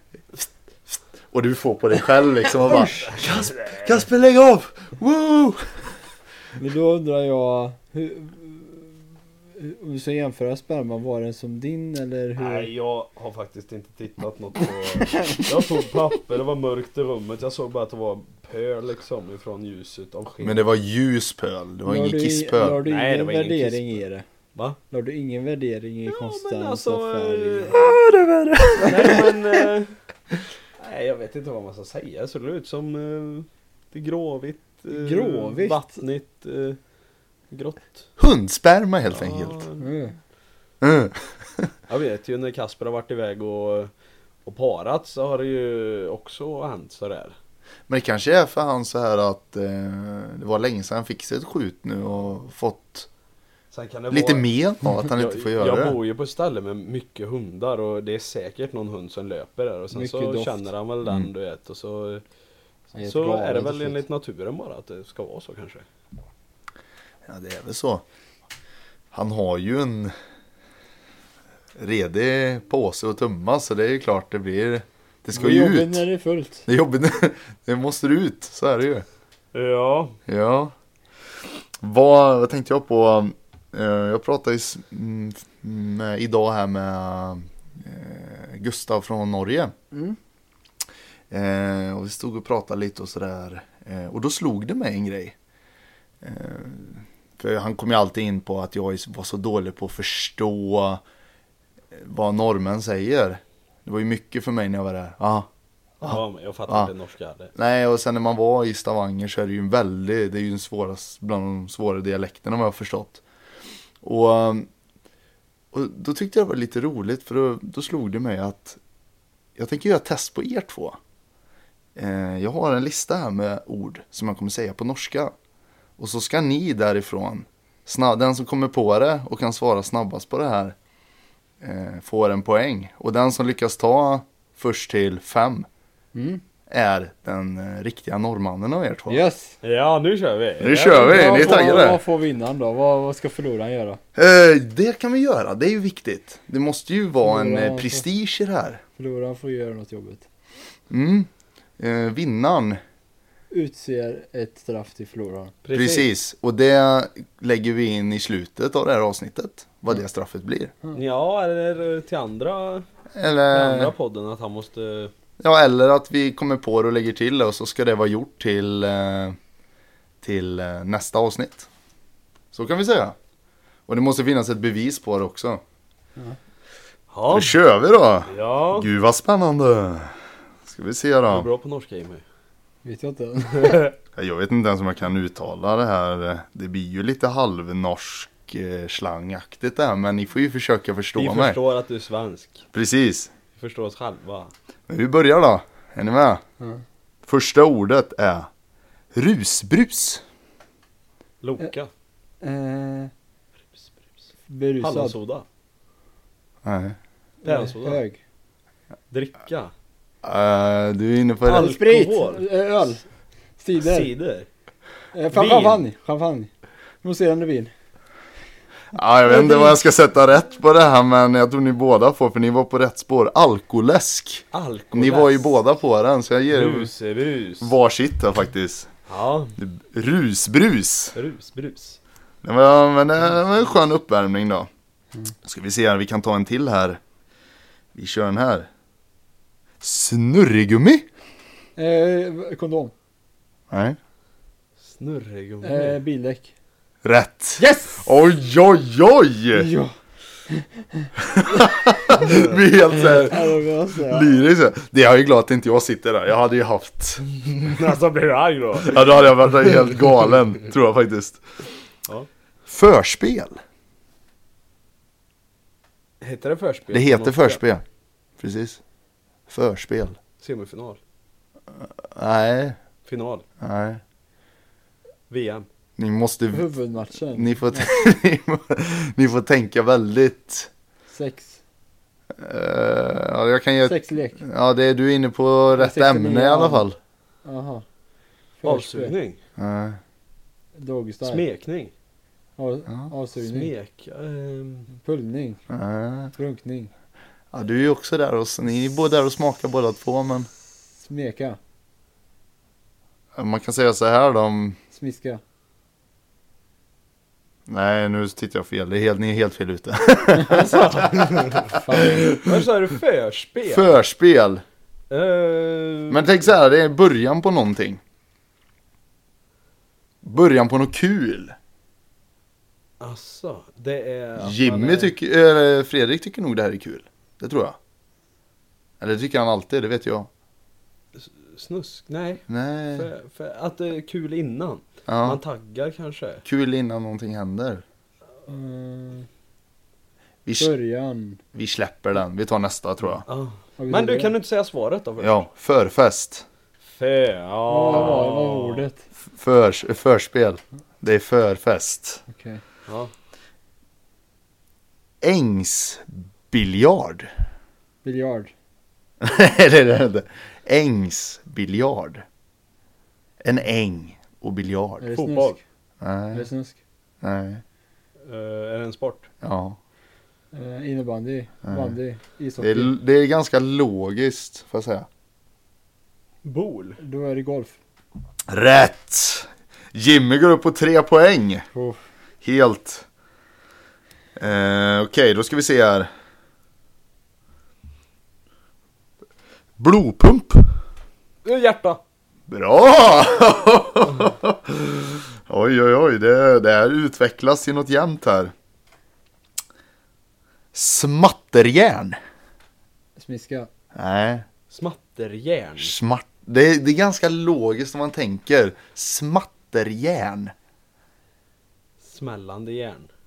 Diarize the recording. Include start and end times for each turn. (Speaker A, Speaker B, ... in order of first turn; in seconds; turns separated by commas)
Speaker A: 0.3-5.8, Speaker B: 2.6-4.0, Speaker C: 6.6-9.0, Speaker C: 9.6-12.7, Speaker B: 12.4-20.6, Speaker C: 15.1-15.6, Speaker A: 20.4-22.8, Speaker C: 21.9-24.2, Speaker B: 22.9-24.0, Speaker C: 24.9-27.8, Speaker B: 26.1-27.8, Speaker A: 27.8-29.3, Speaker C: 28.9-29.3, Speaker B: 28.9-30.0, Speaker B: 30.8-36.8, Speaker C: 34.9-35.9, Speaker B: 37.5-38.1, Speaker A: 38.2-39.6, Speaker B: 39.1-39.9, Speaker C: 39.8-40.1, Speaker A: 40.8-41.7, Speaker B: 41.9-43.9, Speaker B: 44.5-47.4, Speaker A: 47.9-53.1, Speaker B: 53.7-62.2, Speaker A: 54.1-56.0, Speaker C: 59.9-60.6, Speaker C: 62.9-64.0, Speaker B: 63.0-65.8, Speaker A: 67.2-68.0, Speaker A: 69.1-70.1, Speaker A: 71.8-76.0, Speaker C: 75.3-76.7, Speaker A: 76.7-79.0, Speaker B: 79.5-80.2, Speaker A: 80.3-80.7, Speaker A: 81.5-89.7, Speaker C: 89.9-90.2, Speaker A: 91.3-95.3, Speaker A: 96.2-101.0, Speaker A: 101.9-105.5, Speaker B: 106.0-107.5, Speaker A: 106.0-106.9, Speaker A: 107.5-113.2, Speaker A: 114.0-114.7, Speaker A: 115.7-118.8, Speaker A: 119.6-121.0, Speaker A: 122.0-125.3, Speaker A: 126.0-130.8, Speaker A: 131.6-135.7, Speaker C: 136.1-136.4, Speaker A: 136.7-139.2, Speaker C: 139.1-139.5, Speaker B: 139.6-141.9, Speaker A: 140.6-142.0, Speaker C: 140.9-144.0, Speaker A: 144.1-148.8, Speaker C: 147.2-148.0, Speaker C: 149.0-150.2, Speaker A: 150.9-152.8, Speaker C: 153.5-155.6, Speaker B: 155.6-156.1, Speaker A: 155.7-160.7, Speaker B: 160.9-162.8, Speaker A: 163.1-163.9, Speaker B: 163.5-165.1, Speaker A: 165.4-169.4, Speaker A: 170.2-171.7, Speaker A: 172.5-173.1, Speaker A: 173.9-175.6, Speaker B: 177.1-177.6, Speaker A: 177.3-180.1, Speaker B: 178.3-178.9, Speaker A: 180.7-181.5, Speaker B: 181.3-182.2, Speaker C: 182.8-183.9, Speaker B: 183.6-183.9, Speaker A: 184.1-191.6, Speaker B: 191.1-192.6, Speaker A: 192.7-193.3, Speaker B: 193.6-194.5, Speaker A: 194.9-196.4, Speaker A: 197.2-198.5, Speaker A: 199.1-200.2, Speaker B: 201.4-201.9, Speaker C: 202.4-203.1, Speaker C: 204.5-205.1, Speaker B: 204.8-205.4, Speaker A: 206.6-207.0, Speaker B: 207.4-208.0, Speaker C: 207.4-208.2, Speaker B: 209.1-209.7, Speaker A: 210.2-211.7, Speaker B: 211.4-212.4, Speaker C: 211.5-213.0, Speaker C: 213.6-214.1, Speaker B: 213.8-214.5, Speaker C: 215.1-216.5, Speaker B: 215.3-215.8, Speaker C: 217.0-217.7, Speaker A: 218.9-226.9, Speaker C: 219.3-219.7, Speaker B: 224.5-225.5, Speaker B: 226.5-227.7, Speaker A: 227.6-228.9, Speaker B: 229.1-229.6, Speaker A: 229.6-231.1, Speaker B: 231.1-232.0, Speaker A: 232.4-234.7, Speaker A: 235.4-237.0, Speaker A: 237.9-238.7, Speaker A: 239.8-241.1, Speaker C: 241.8-242.9, Speaker A: 243.7-244.0, Speaker B: 244.8-246.0, Speaker C: 245.6-246.5, Speaker A: 247.0-249.7, Speaker C: 247.6-248.1, Speaker C: 249.5-250.0, Speaker C: 250.5-251.1, Speaker A: 251.2-257.4, Speaker C: 252.9-254.4, Speaker B: 257.5-259.9, Speaker A: 258.8-261.7, Speaker A: 262.7-263.6, Speaker B: 266.2-267.6, Speaker A: 266.9-267.8, Speaker A: 268.4-268.8, Speaker A: 269.5-270.2, Speaker B: 270.4-271.0, Speaker A: 271.7-272.8, Speaker B: 273.1-273.4, Speaker A: 273.6-274.0, Speaker B: 275.3-275.7, Speaker A: 276.0-276.7, Speaker C: 276.5-277.9, Speaker A: 277.3-280.7, Speaker C: 281.1-281.6, Speaker A: 282.4-287.0, Speaker C: 283.8-284.4, Speaker C: 285.8-286.9, Speaker C: 287.4-287.9, Speaker C: 288.6-289.1, Speaker B: 288.6-289.4, Speaker A: 289.6-290.0, Speaker C: 290.8-291.4, Speaker B: 291.2-291.9, Speaker C: 292.6-293.7, Speaker B: 293.4-294.9, Speaker C: 294.9-295.6, Speaker A: 295.7-296.3, Speaker C: 296.4-296.9, Speaker A: 297.5-300.5, Speaker C: 301.0-301.6, Speaker A: 303.3-304.8, Speaker C: 304.9-305.4, Speaker A: 307.7-312.4, Speaker B: 310.5-314.0, Speaker C: 311.7-312.4, Speaker A: 313.7-314.6, Speaker B: 315.1-316.3, Speaker A: 316.1-318.0, Speaker A: 320.2-321.5, Speaker B: 323.0-325.1, Speaker A: 324.4-327.8, Speaker A: 329.0-330.3, Speaker B: 331.2-336.4, Speaker A: 332.5-333.1, Speaker A: 335.1-335.4, Speaker A: 336.4-337.8, Speaker C: 338.5-339.3, Speaker A: 340.5-340.7, Speaker C: 340.6-341.4, Speaker A: 341.5-343.2, Speaker B: 343.2-345.5, Speaker C: 343.8-344.3, Speaker A: 345.2-346.4, Speaker B: 346.9-348.9, Speaker C: 347.7-349.0, Speaker A: 349.2-352.2, Speaker C: 352.3-352.6, Speaker B: 352.9-353.1, Speaker A: 355.2-357.3, Speaker C: 358.0-358.5, Speaker A: 359.2-362.2, Speaker A: 363.4-365.0, Speaker C: 365.0-365.6, Speaker B: 365.1-365.6, Speaker A: 366.0-366.5, Speaker C: 366.3-366.8, Speaker A: 367.2-367.6, Speaker B: 368.2-369.3, Speaker A: 369.4-369.8, Speaker C: 370.5-372.9, Speaker A: 371.6-371.9, Speaker A: 372.6-375.1, Speaker B: 376.4-377.0, Speaker C: 377.0-377.8, Speaker A: 378.5-381.7, Speaker C: 381.7-382.0, Speaker A: 382.4-383.1, Speaker A: 384.4-386.1, Speaker A: 389.8-390.7, Speaker B: 391.4-392.0, Speaker A: 392.5-398.5, Speaker A: 400.7-402.2, Speaker C: 403.2-403.7, Speaker A: 403.9-404.4, Speaker B: 404.7-405.9, Speaker A: 405.8-410.5, Speaker B: 412.0-413.1